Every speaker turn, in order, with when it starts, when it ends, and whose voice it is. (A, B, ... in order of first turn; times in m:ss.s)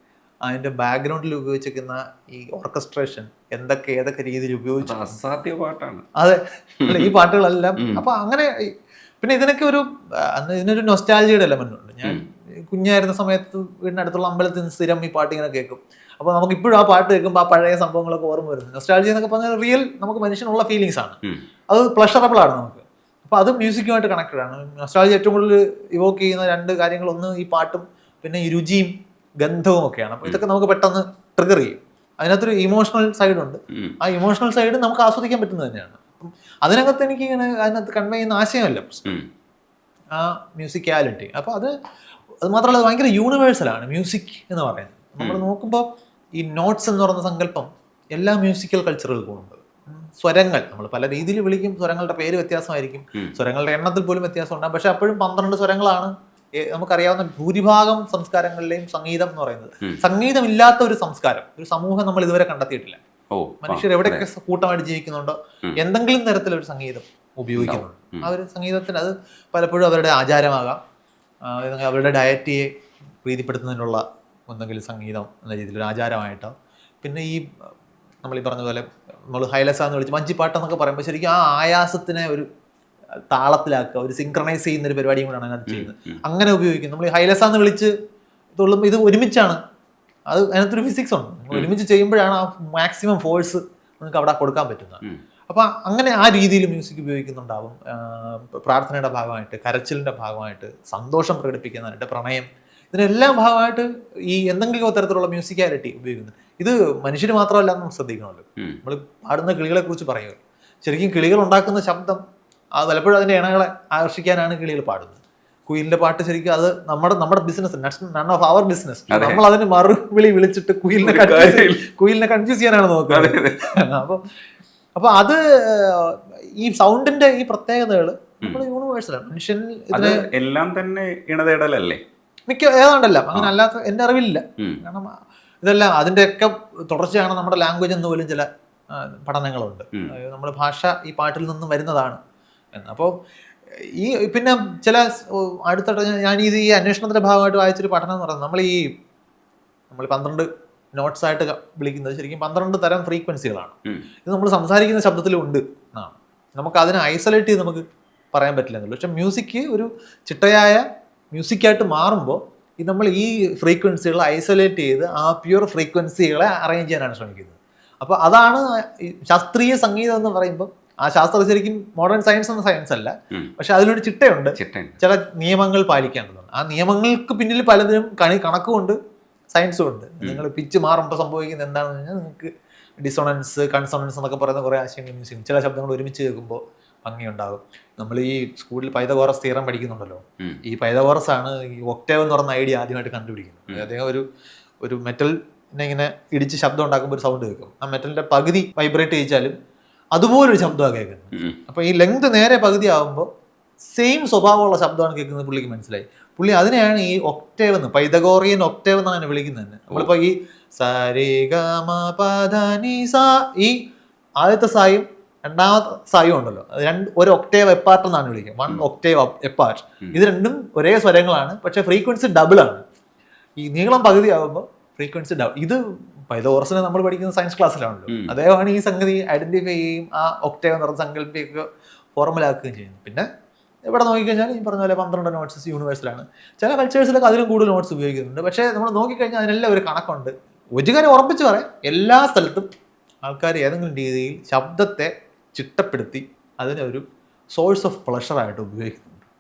0:00.5-0:05.2 A
0:04.8-0:06.0 B
0:06.2-0:08.5 A
0:06.8-0:07.1 B
0:09.2-0:21.2 A
0:21.7-0:39.2 A
0:40.1-0:41.7 A
0:42.4-0:45.8 A
0:46.4-1:03.0 A
1:03.3-1:04.2 B
1:03.6-1:10.8 A
1:07.6-1:08.3 B
1:11.5-1:12.7 A
1:13.2-1:17.4 A
1:18.2-1:22.5 A
1:23.3-1:27.9 A
1:25.7-1:26.2 B
1:28.6-1:29.6 A
1:30.3-1:52.2 A
1:52.8-2:04.2 A
1:59.1-1:59.4 B
2:01.0-2:01.8 B
2:03.1-2:03.6 B
2:05.0-2:10.2 A
2:09.9-2:12.0 B
2:12.5-2:22.2 A
2:22.8-2:23.1 A
2:24.0-2:28.9 A
2:29.9-2:33.8 A
2:34.3-2:59.0 A
2:54.6-2:55.0 B
2:59.5-3:02.5 A
3:03.0-3:14.2 A
3:14.8-3:19.5 A
3:20.2-3:23.3 A
3:23.9-3:33.8 A
3:34.4-3:42.8 A
3:43.6-3:45.8 A
3:46.3-3:53.3 A
3:53.9-4:02.7 A
4:03.2-4:07.0 A
4:07.6-4:09.2 A